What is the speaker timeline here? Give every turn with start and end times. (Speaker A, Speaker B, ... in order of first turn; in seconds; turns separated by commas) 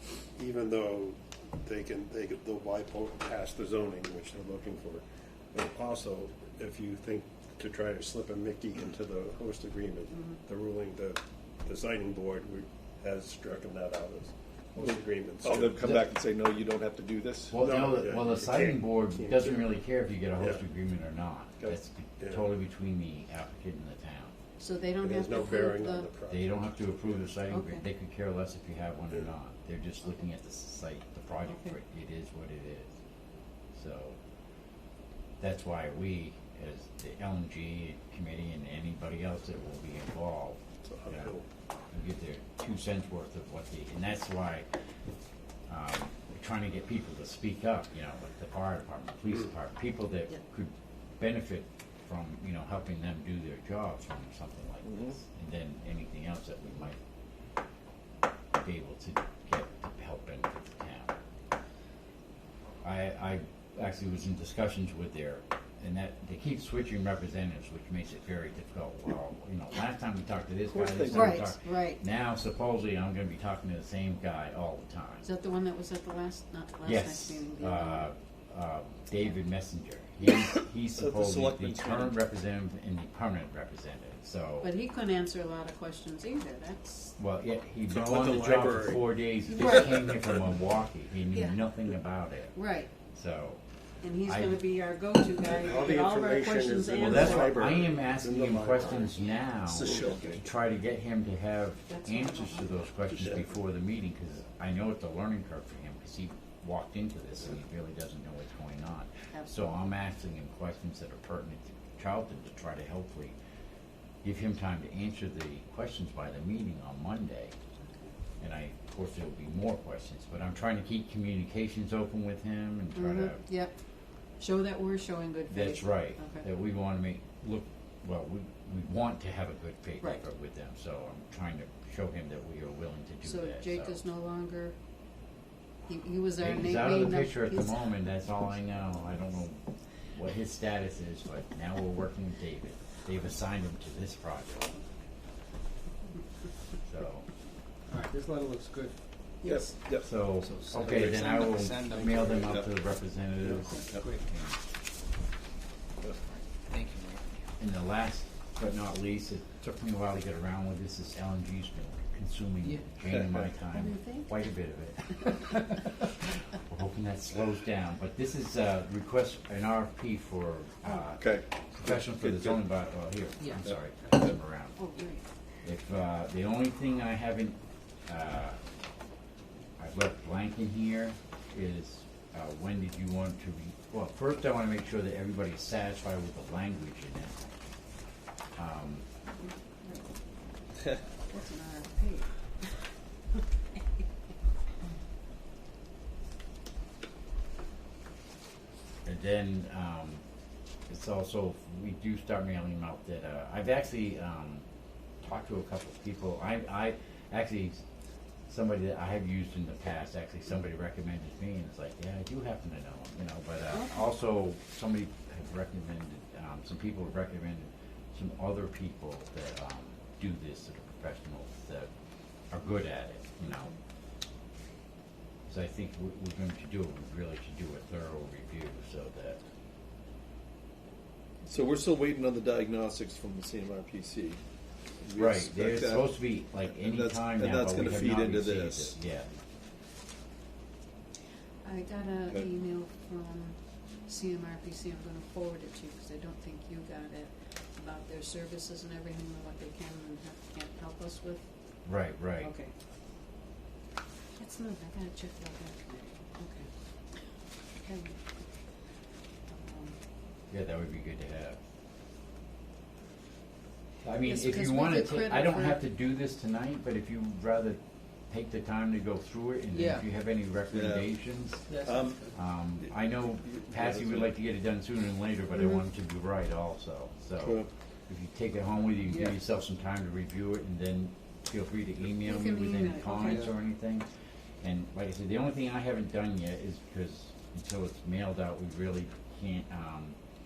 Speaker A: 0.3-15.9, Speaker B: 10.1-10.4, Speaker C: 14.8-17.6, Speaker D: 17.5-24.4, Speaker A: 17.6-19.7, Speaker A: 21.6-22.4, Speaker B: 24.6-26.1, Speaker A: 25.0-27.1, Speaker D: 26.3-32.9, Speaker B: 27.5-27.8, Speaker B: 31.5-31.7, Speaker D: 33.7-34.2, Speaker D: 35.4-41.3, Speaker A: 40.8-41.4, Speaker D: 41.9-44.7, Speaker D: 45.7-57.0, Speaker C: 54.9-55.1, Speaker D: 58.5-61.2, Speaker D: 62.8-75.2, Speaker C: 70.7-71.5, Speaker B: 71.1-72.0, Speaker B: 75.2-78.1, Speaker D: 76.8-84.7, Speaker C: 81.0-82.2, Speaker B: 84.6-87.2, Speaker D: 87.2-92.6, Speaker C: 88.0-89.0, Speaker B: 89.5-90.1, Speaker B: 91.3-91.6, Speaker B: 92.5-92.9, Speaker D: 93.1-93.6, Speaker B: 94.0-97.6, Speaker D: 94.2-94.6, Speaker A: 95.4-99.2, Speaker D: 97.0-113.4, Speaker C: 99.7-100.4, Speaker A: 99.8-100.2, Speaker B: 101.9-102.9, Speaker D: 114.2-117.6, Speaker D: 118.4-123.4, Speaker B: 123.0-123.7, Speaker B: 124.4-126.4, Speaker D: 125.5-134.0, Speaker B: 133.2-134.8, Speaker B: 135.9-137.9, Speaker D: 136.4-144.8, Speaker D: 146.8-147.3, Speaker E: 147.9-149.0, Speaker C: 149.4-150.1, Speaker B: 149.4-149.7, Speaker D: 150.0-154.6, Speaker E: 150.4-152.5, Speaker C: 152.1-152.7, Speaker E: 153.7-154.2, Speaker E: 156.5-157.3, Speaker D: 157.6-165.6, Speaker C: 163.1-163.5, Speaker B: 163.7-164.3, Speaker D: 166.6-174.8, Speaker C: 170.9-172.6, Speaker E: 173.4-174.1, Speaker B: 174.8-175.2, Speaker D: 175.6-178.6, Speaker D: 179.8-187.5, Speaker D: 188.6-189.1, Speaker B: 189.8-190.1, Speaker B: 191.3-192.9, Speaker D: 199.1-200.2, Speaker D: 200.9-204.7, Speaker D: 205.2-207.8, Speaker D: 208.5-221.9, Speaker B: 213.7-214.1, Speaker D: 222.5-223.7, Speaker D: 225.5-229.4, Speaker C: 231.5-234.4, Speaker C: 235.0-236.1, Speaker D: 235.2-239.3, Speaker C: 236.7-238.9, Speaker B: 241.6-251.5, Speaker D: 251.8-252.5, Speaker B: 252.4-252.7, Speaker B: 254.4-256.7, Speaker B: 257.8-258.2, Speaker B: 259.5-260.0, Speaker D: 260.5-261.6, Speaker D: 264.0-271.6, Speaker B: 264.2-265.8, Speaker E: 269.7-270.1, Speaker C: 270.7-271.1, Speaker E: 271.7-272.3, Speaker C: 271.7-272.3, Speaker D: 272.3-284.1, Speaker C: 273.4-274.3, Speaker C: 277.4-277.7, Speaker E: 279.1-279.4, Speaker B: 282.1-283.5, Speaker D: 284.6-290.2